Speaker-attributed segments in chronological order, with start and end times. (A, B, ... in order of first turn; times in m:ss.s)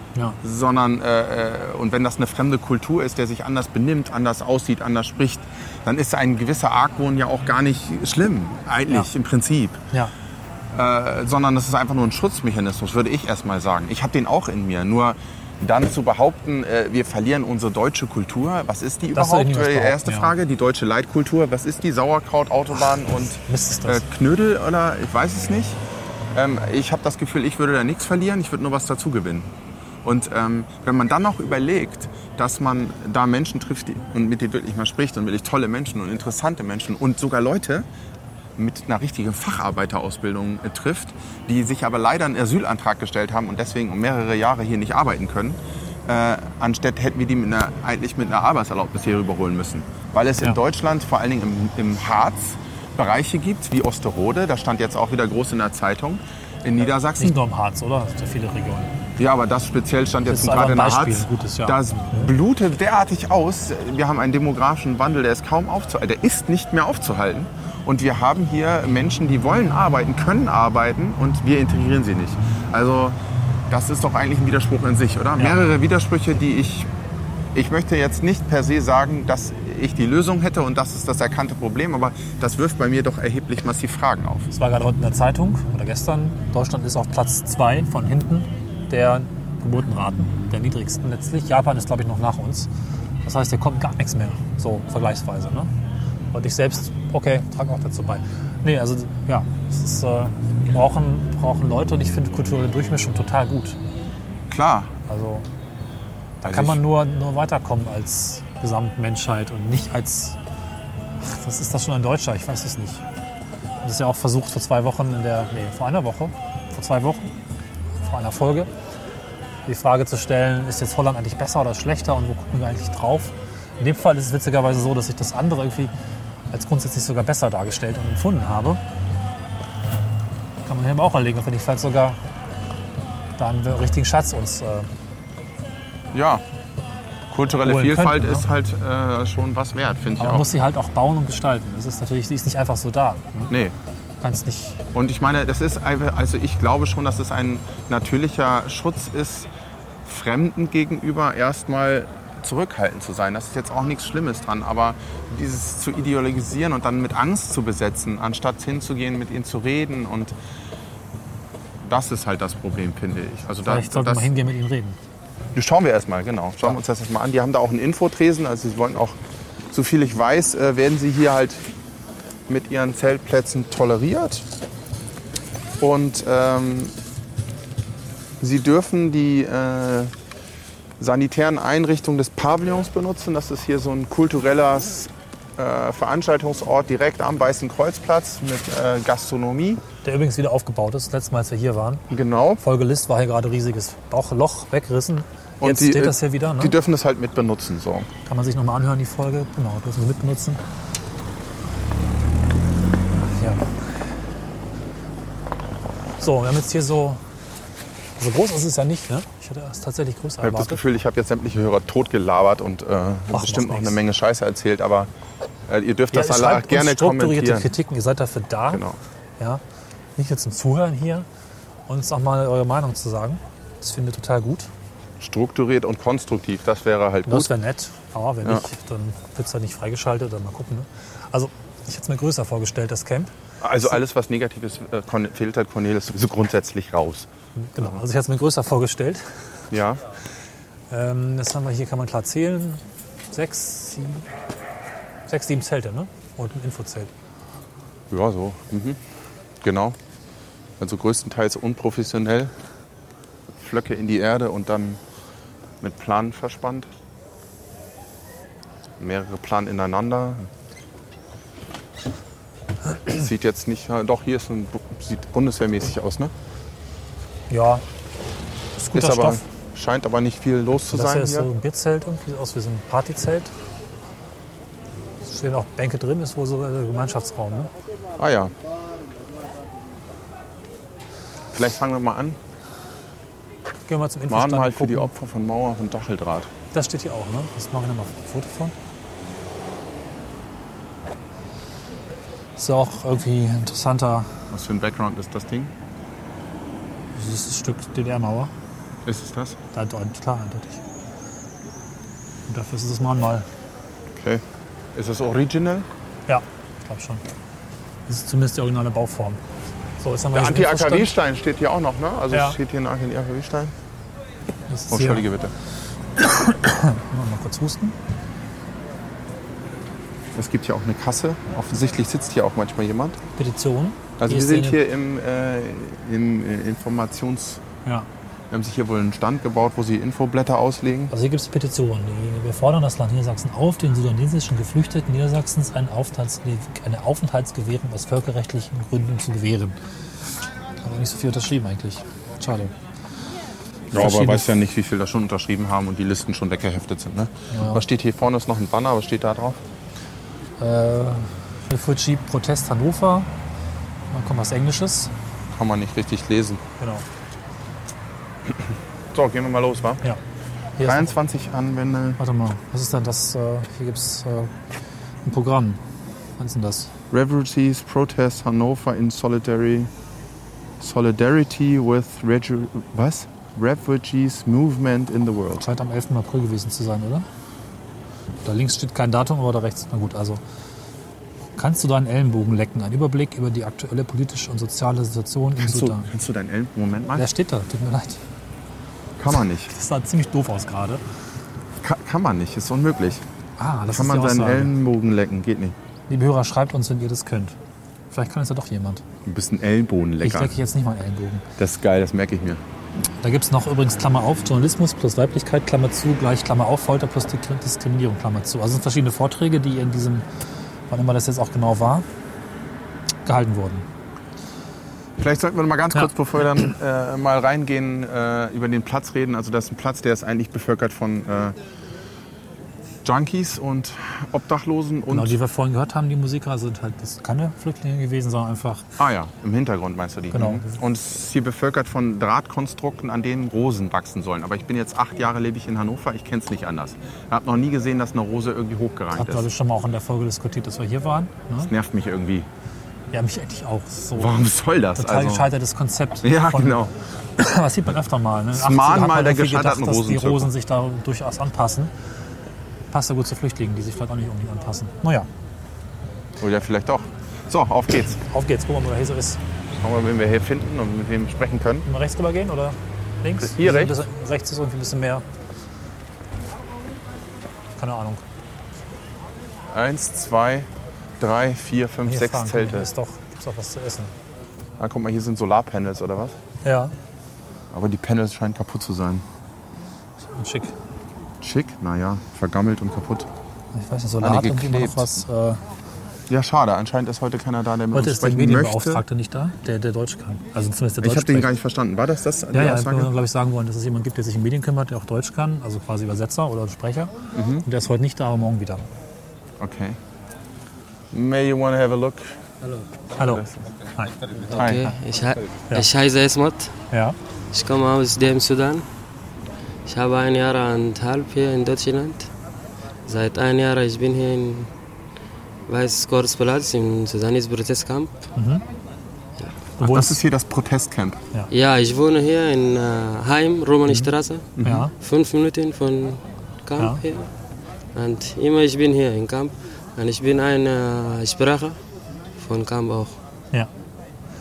0:00.4-0:09.8 A
0:10.7-0:25.8 A
0:19.1-0:20.3 B
0:23.5-0:24.0 B
0:26.3-0:29.5 A
0:30.0-0:37.8 A
0:38.6-0:57.4 A
0:57.2-0:59.0 B
0:59.2-1:13.2 A
1:00.3-1:02.3 B
1:13.7-1:16.9 A
1:17.5-1:24.5 A
1:24.5-1:32.7 B
1:33.2-1:35.7 B
1:36.3-1:43.8 B
1:44.5-1:44.9 A
1:45.1-1:45.5 B
1:46.4-1:50.4 B
1:46.4-1:46.8 A
1:51.2-1:53.0 B
1:53.8-1:57.3 B
1:58.0-1:58.7 B
1:59.7-2:05.9 B
2:06.5-2:08.8 B
2:10.7-2:12.2 B
2:13.4-2:14.9 B
2:16.1-2:16.4 A
2:17.3-2:20.5 A
2:17.6-2:18.4 B
2:20.2-2:23.5 B
2:23.5-2:23.8 A
2:24.2-2:24.8 B
2:24.9-2:29.5 A
2:30.0-2:40.3 A
2:41.8-2:44.3 A
2:43.6-2:45.0 B
2:45.5-2:49.2 A
2:49.7-2:51.6 A
2:52.5-2:54.5 A
2:55.8-2:56.9 A
2:58.4-3:00.1 A
3:01.0-3:09.8 A
3:10.0-3:12.1 B
3:12.1-3:12.6 A
3:12.6-3:16.8 B
3:15.6-3:18.1 A
3:18.2-3:20.6 B
3:23.1-3:23.7 B
3:26.2-3:27.2 B
3:28.2-3:30.8 B
3:30.4-3:35.1 A
3:33.3-3:34.0 B
3:35.7-3:37.7 A
3:36.1-3:38.8 B
3:38.7-3:39.0 A
3:40.2-3:41.2 B
3:41.9-3:44.7 B
3:45.2-3:47.5 A
3:47.2-3:53.3 B
3:53.6-3:57.3 A
3:57.6-3:59.2 B
3:59.7-4:00.0 A
4:00.9-4:04.3 B
4:05.3-4:07.1 B
4:08.1-4:09.0 A
4:09.6-4:10.0 A
4:10.8-4:12.5 A
4:13.6-4:15.0 A
4:15.8-4:16.9 A
4:19.0-4:20.5 A
4:23.0-4:26.3 A
4:27.5-4:27.8 B
4:28.8-4:29.4 B
4:28.8-4:31.5 A
4:30.9-4:33.5 B
4:35.2-4:37.7 B
4:38.2-4:38.5 A
4:41.5-4:42.4 A
4:43.9-4:45.1 B
4:44.3-4:46.5 A
4:46.7-4:48.7 B
4:52.6-4:54.3 B
4:54.5-4:55.7 A
4:57.1-4:58.5 B
4:59.0-4:59.6 A
4:59.7-5:00.8 B
5:02.5-5:03.4 B
5:04.1-5:04.4 A
5:04.9-5:05.9 A
5:06.3-5:07.2 B
5:08.1-5:09.4 B
5:10.0-5:11.1 B
5:10.3-5:13.7 A
5:12.3-5:12.6 B
5:14.7-5:15.3 B
5:14.9-5:15.5 A
5:16.2-5:17.9 B
5:20.3-5:23.2 A
5:23.4-5:24.8 B
5:24.2-5:27.6 A
5:28.5-5:31.1 A
5:31.1-5:39.8 B
5:40.8-5:42.7 B
5:43.9-5:49.6 A
5:43.9-5:44.5 B
5:47.5-5:47.8 B
5:50.6-5:53.3 B
5:54.1-5:55.1 B
5:55.5-5:56.6 A
5:58.5-6:00.0 A
6:00.8-6:01.1 B
6:00.8-6:02.2 A
6:02.2-6:04.5 B
6:05.2-6:05.8 B
6:06.4-6:06.9 B
6:07.1-6:09.9 A
6:10.8-6:15.6 A
6:15.6-6:17.3 B
6:18.4-6:20.4 B
6:21.6-6:26.1 B
6:25.6-6:27.3 A
6:27.1-6:28.2 B
6:29.2-6:29.7 A
6:29.7-6:31.0 B
6:31.8-6:33.2 A
6:33.6-6:34.7 B
6:33.9-6:35.8 A
6:36.1-6:37.6 B
6:38.1-6:39.0 B
6:39.2-6:40.6 A
6:40.2-6:41.4 B
6:41.6-6:42.6 A
6:43.2-6:50.2 B
6:50.9-6:52.0 B
6:53.3-6:53.9 B
6:55.2-7:01.6 A
7:03.0-7:05.4 A
7:05.1-7:08.9 B
7:09.0-7:19.5 A
7:10.3-7:10.7 B
7:19.1-7:21.7 B
7:21.6-7:22.5 A
7:23.1-7:24.4 B
7:24.2-7:25.5 A
7:25.0-7:26.8 B
7:26.2-7:26.9 A
7:27.4-7:31.9 B
7:28.5-7:30.5 A
7:32.9-7:35.3 B
7:36.4-7:38.2 A
7:38.2-7:39.4 B
7:39.8-7:41.9 A
7:41.8-7:45.2 B
7:43.4-7:43.9 A
7:47.8-7:48.2 B
7:49.7-7:50.7 A
7:51.2-7:52.9 A
7:52.0-7:54.1 B
7:54.8-7:56.4 A
7:56.6-7:56.9 B
7:57.7-7:59.2 A
8:00.4-8:00.7 B
8:01.4-8:03.3 A
8:03.7-8:05.6 B
8:04.2-8:05.2 A
8:06.3-8:09.0 A
8:07.9-8:11.5 B
8:11.0-8:13.1 A
8:12.5-8:18.8 B
8:17.4-8:17.6 A
8:19.6-8:20.0 A
8:21.1-8:22.4 A
8:23.2-8:23.4 B
8:23.2-8:23.7 A
8:24.5-8:24.9 A
8:24.5-8:26.8 C
8:27.5-8:28.9 C
8:29.9-8:32.3 C
8:33.1-8:34.7 C
8:35.7-8:38.1 C
8:38.4-8:38.6 B
8:39.8-8:40.2 B
8:39.8-8:41.2 A
8:41.5-8:47.3 C
8:44.6-8:44.9 A
8:44.6-8:44.9 B
8:47.9-8:51.8 C
8:52.4-8:53.2 C